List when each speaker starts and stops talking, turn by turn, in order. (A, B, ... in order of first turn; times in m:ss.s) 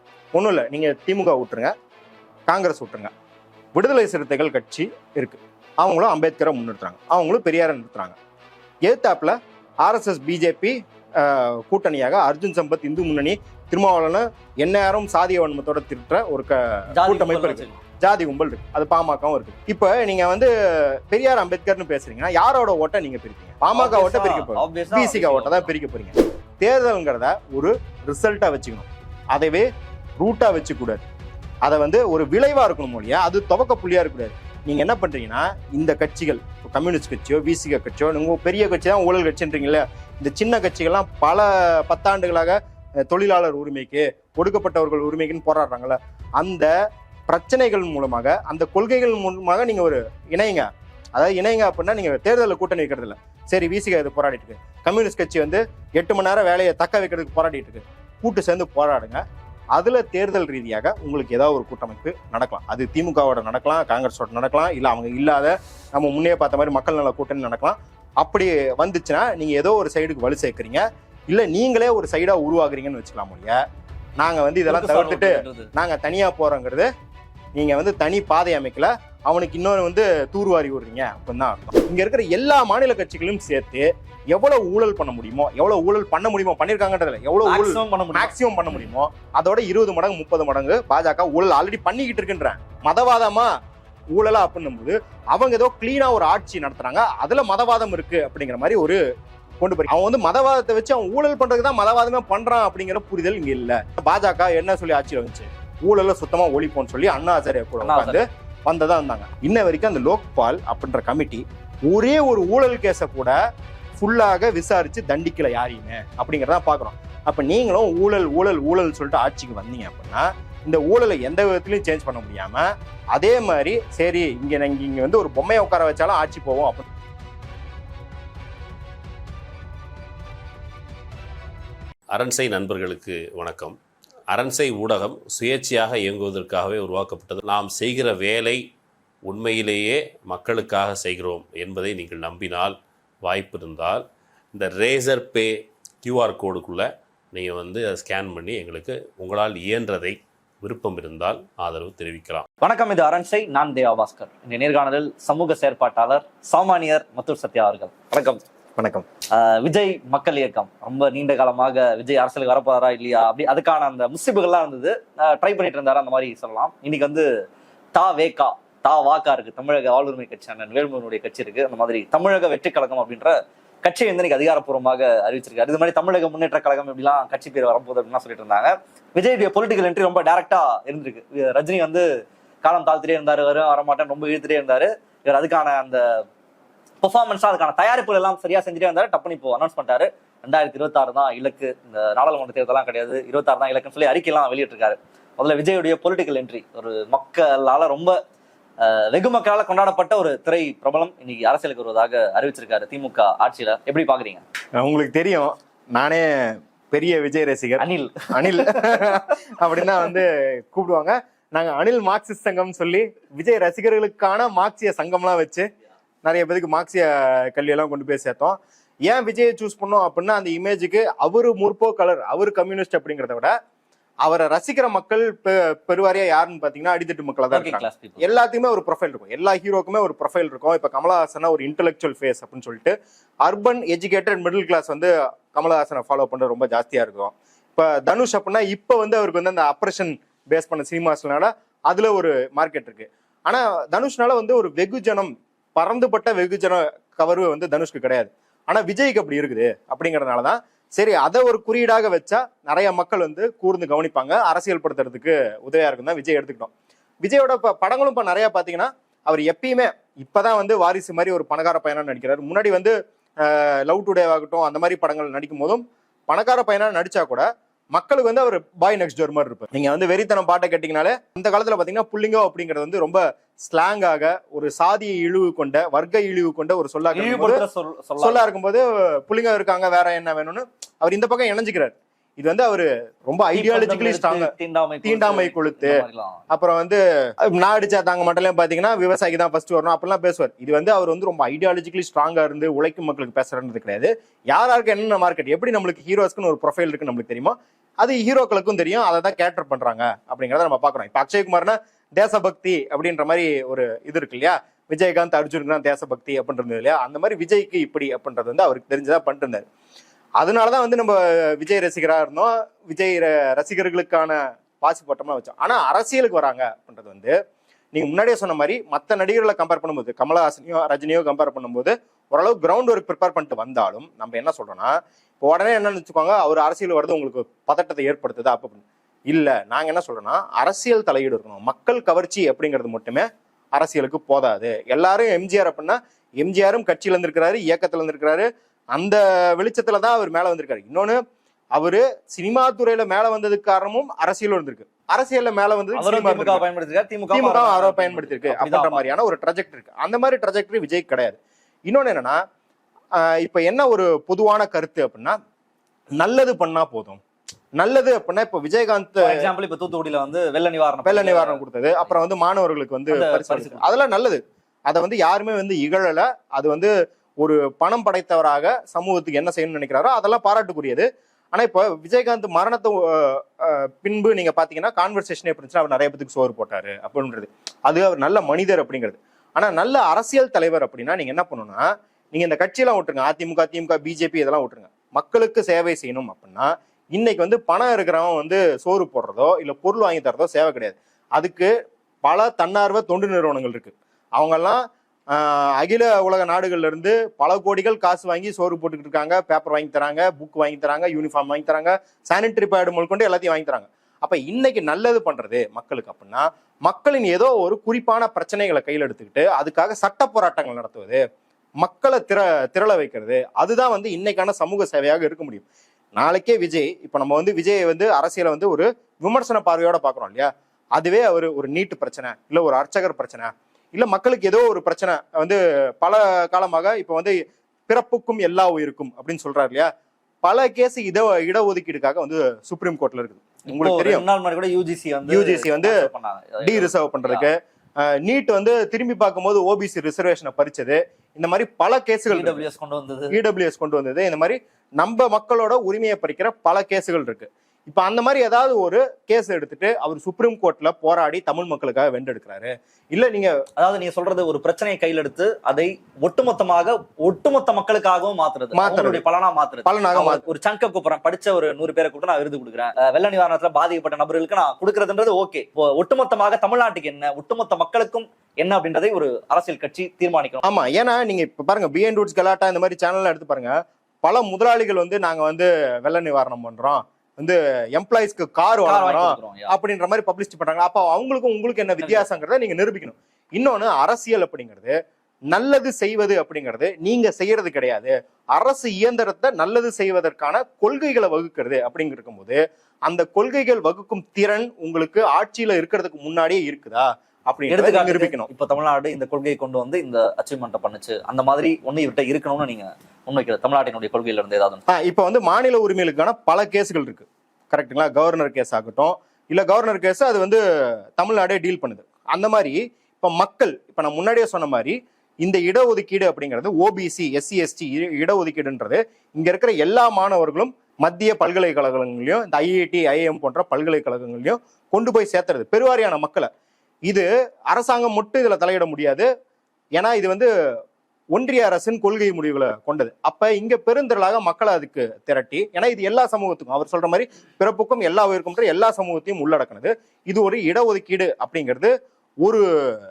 0:00.3-0:01.7 A
0:02.5-0:03.1 A
0:03.7-0:08.2 A
0:08.8-0:29.7 A
0:16.9-0:17.8 B
0:23.7-0:25.7 B
0:30.2-0:31.0 A
0:31.6-0:46.7 A
0:47.3-0:59.2 A
0:59.7-1:13.6 A
1:14.2-1:16.9 A
1:14.7-1:15.7 B
1:17.5-1:33.5 A
1:27.4-1:28.8 B
1:34.1-1:39.0 A
1:39.6-1:53.4 A
1:47.8-1:48.2 B
1:54.0-2:06.8 A
2:12.1-2:13.8 C
2:14.3-2:18.6 C
2:19.2-2:32.4 C
2:32.6-2:38.4 B
2:38.8-2:39.0 A
2:39.3-2:47.3 B
2:47.9-3:02.1 B
3:02.6-3:06.2 B
3:07.0-3:18.2 B
3:18.8-3:24.4 B
3:24.8-3:35.7 A
3:27.8-3:29.2 B
3:36.2-3:43.5 A
3:44.2-4:16.7 A
3:47.5-3:48.2 B
4:17.2-4:37.6 A
4:37.1-4:38.5 B
4:38.2-4:44.5 A
4:43.5-4:46.4 B
4:45.0-5:09.6 A
5:10.4-5:17.3 A
5:17.9-5:41.2 A
5:41.7-5:46.6 A
5:46.0-5:49.1 B
5:47.3-5:52.4 A
5:53.2-5:55.4 A
5:56.2-5:57.2 A
5:57.8-5:59.5 A
5:59.2-6:02.2 B
6:01.0-6:31.7 A
6:03.1-6:03.8 B
6:32.2-6:51.2 A
6:51.8-6:55.6 A
6:56.2-7:09.9 A
7:10.4-7:14.2 A
7:13.7-7:17.5 B
7:15.3-7:16.0 A
7:16.6-7:22.6 A
7:22.3-7:23.4 B
7:23.3-7:33.5 A
7:33.8-7:50.6 B
7:38.7-7:39.2 A
7:39.8-7:40.4 A
7:50.6-8:04.9 A
7:58.8-7:59.7 B
8:02.0-8:02.3 B
8:05.5-8:18.5 A
8:17.7-8:24.8 B
8:24.9-8:30.6 A
8:31.2-8:46.5 A
8:47.1-8:49.3 A
8:50.0-8:50.5 A
8:51.3-9:02.6 A